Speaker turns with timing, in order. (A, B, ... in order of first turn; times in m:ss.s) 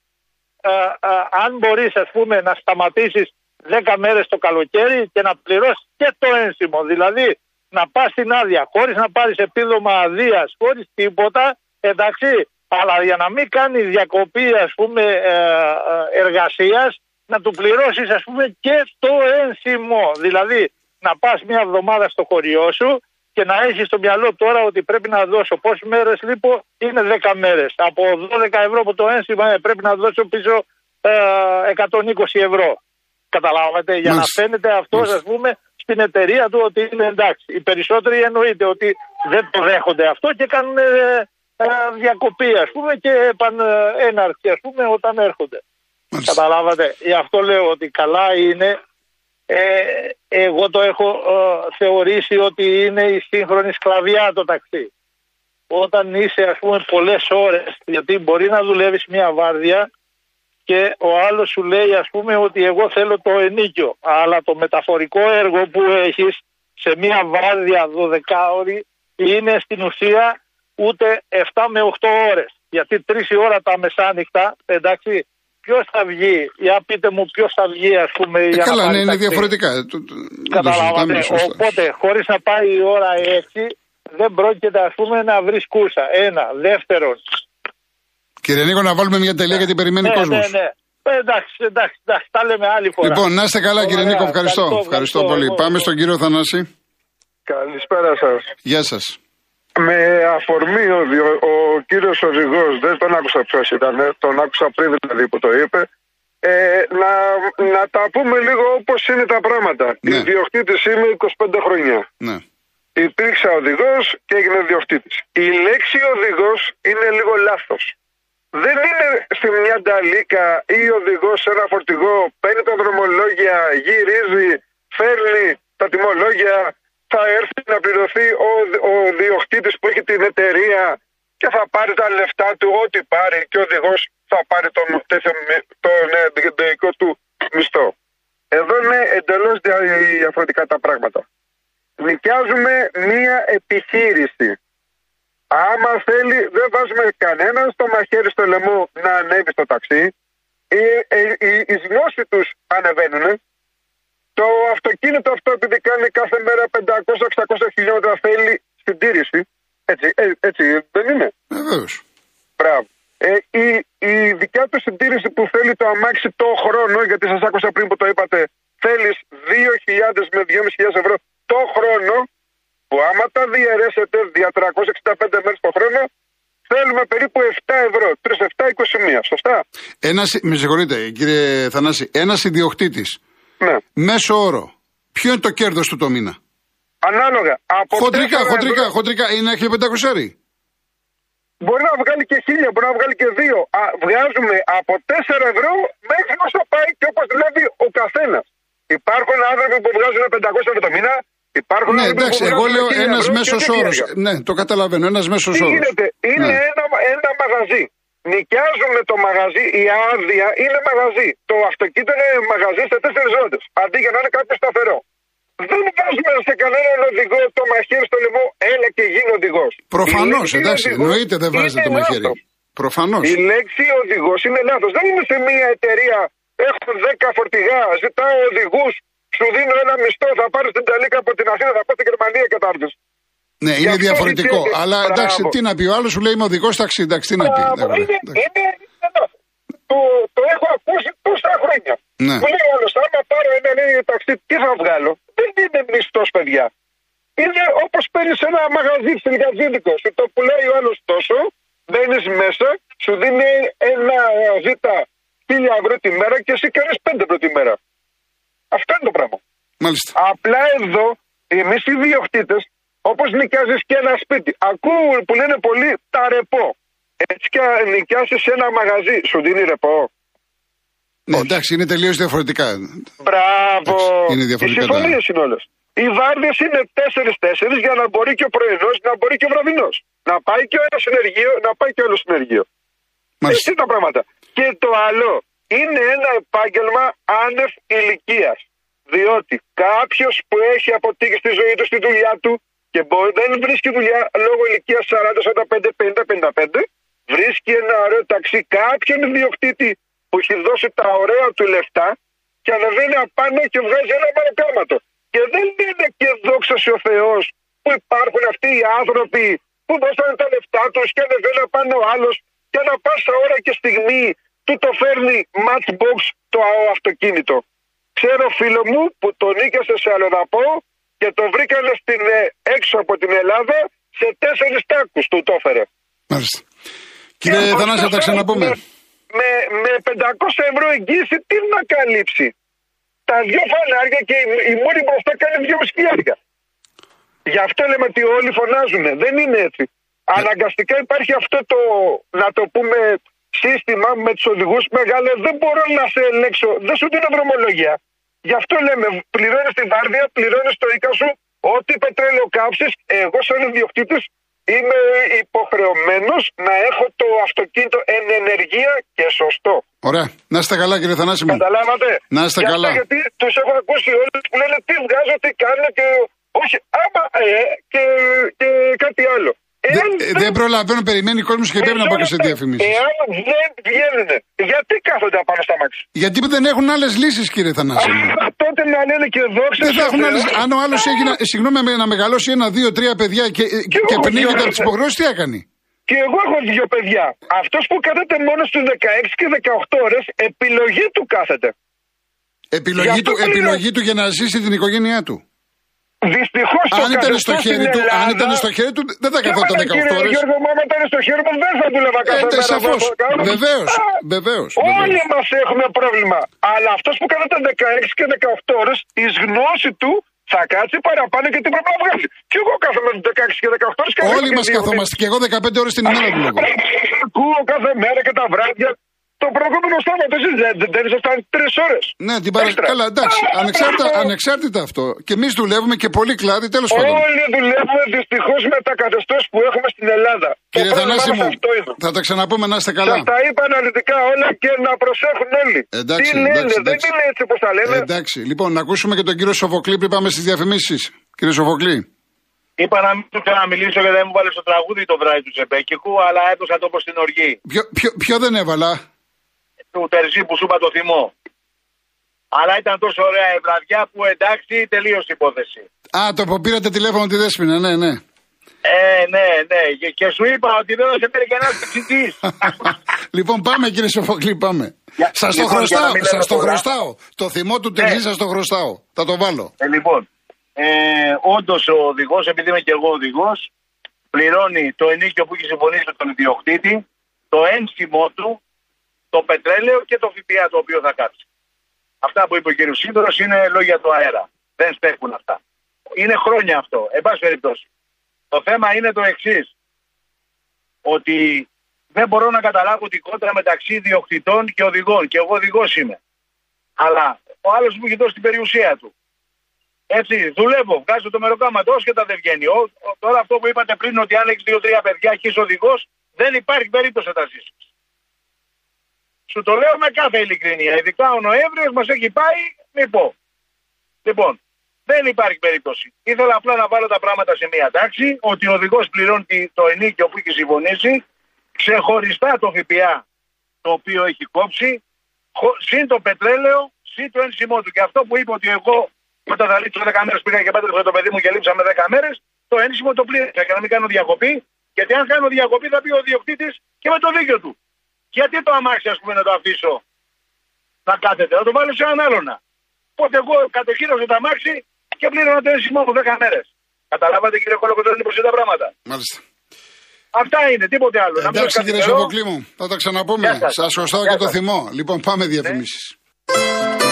0:00.6-0:32.8 A
0:33.3-0:45.6 A
0:34.1-0:34.4 B
0:46.1-0:46.4 B
0:46.3-0:48.8 A
0:49.5-0:54.9 A
0:55.7-0:59.9 A
1:00.7-1:19.5 A
1:18.5-1:21.6 B
1:20.5-1:27.2 A
1:28.4-1:30.5 B
1:30.0-1:33.2 A
1:33.0-1:36.7 B
1:33.8-1:35.9 A
1:37.5-1:38.5 C
1:38.6-1:39.2 B
1:39.8-1:45.9 C
1:46.4-1:52.0 C
1:50.0-1:50.3 B
1:53.0-1:57.9 C
1:58.6-2:17.9 C
2:18.5-2:21.2 C
2:22.0-2:24.6 C
2:25.5-2:30.1 C
2:30.7-2:33.4 C
2:34.4-2:41.3 C
2:41.5-2:42.0 B
2:42.6-2:52.3 C
2:52.9-2:56.1 C
2:56.7-2:59.6 C
3:00.0-3:03.2 B
3:04.0-3:06.4 B
3:07.0-3:08.9 C
3:07.9-3:10.4 B
3:11.6-3:24.1 C
3:21.9-3:26.6 B
3:25.5-3:35.0 C
3:35.6-3:42.4 C
3:39.9-3:43.3 B
3:43.2-3:52.9 C
3:53.6-3:58.4 B
3:53.8-3:55.5 C
3:57.4-3:59.3 C
3:59.9-4:06.7 C
4:02.2-4:02.4 B
4:07.4-4:17.8 C
4:18.7-4:19.4 C
4:19.8-4:20.1 B
4:20.2-4:30.1 C
4:31.3-4:33.1 B
4:33.2-4:42.6 C
4:33.9-4:35.2 B
4:43.5-4:48.6 C
4:49.1-5:02.1 C
5:02.6-5:17.6 C
5:18.2-5:25.9 C
5:26.3-5:26.6 B
5:27.4-5:28.8 B
5:27.5-5:28.8 C
5:29.3-5:32.5 C
5:33.3-5:36.4 C
5:37.5-5:59.8 C
6:00.0-6:01.6 B
6:01.5-6:10.5 C
6:02.3-6:03.0 B
6:09.9-6:13.0 B
6:11.8-6:16.0 C
6:16.2-6:18.3 B
6:18.0-6:21.3 C
6:19.8-6:25.7 B
6:23.9-6:24.9 C
6:26.1-6:31.7 C
6:32.7-6:35.4 B
6:33.0-6:33.8 C
6:36.2-6:38.6 C
6:36.9-6:40.4 B
6:39.4-6:44.0 C
6:42.2-6:45.2 B
6:44.8-6:55.0 C
6:54.2-6:56.7 B
6:56.6-7:04.3 C
7:02.2-7:07.2 B
7:06.9-7:12.0 C
7:10.8-7:13.3 B
7:13.0-7:18.1 C
7:15.9-7:17.1 B
7:17.8-7:22.1 B
7:22.8-7:27.6 D
7:27.7-7:29.0 B
7:29.9-7:31.3 D
7:32.5-7:35.8 D
7:36.1-7:38.2 B
7:38.8-7:42.4 D
7:42.6-7:49.7 B
7:45.2-7:46.8 D
7:49.8-7:53.7 D
7:54.3-7:58.6 D
7:59.3-8:01.4 D
8:02.2-8:05.6 D
8:06.2-8:07.8 D
8:08.5-8:09.7 D
8:11.0-8:16.2 D
8:17.0-8:19.1 D
8:20.1-8:27.8 D
8:29.5-8:33.4 D
8:34.2-8:41.2 D
8:41.8-8:43.2 D
8:43.8-8:45.0 D
8:45.6-8:57.8 D
8:58.3-9:00.0 D
9:01.1-9:02.6 D
9:03.2-9:08.9 D
9:09.1-9:09.4 B
9:10.3-9:12.3 D
9:11.4-9:16.2 B
9:13.4-9:14.5 D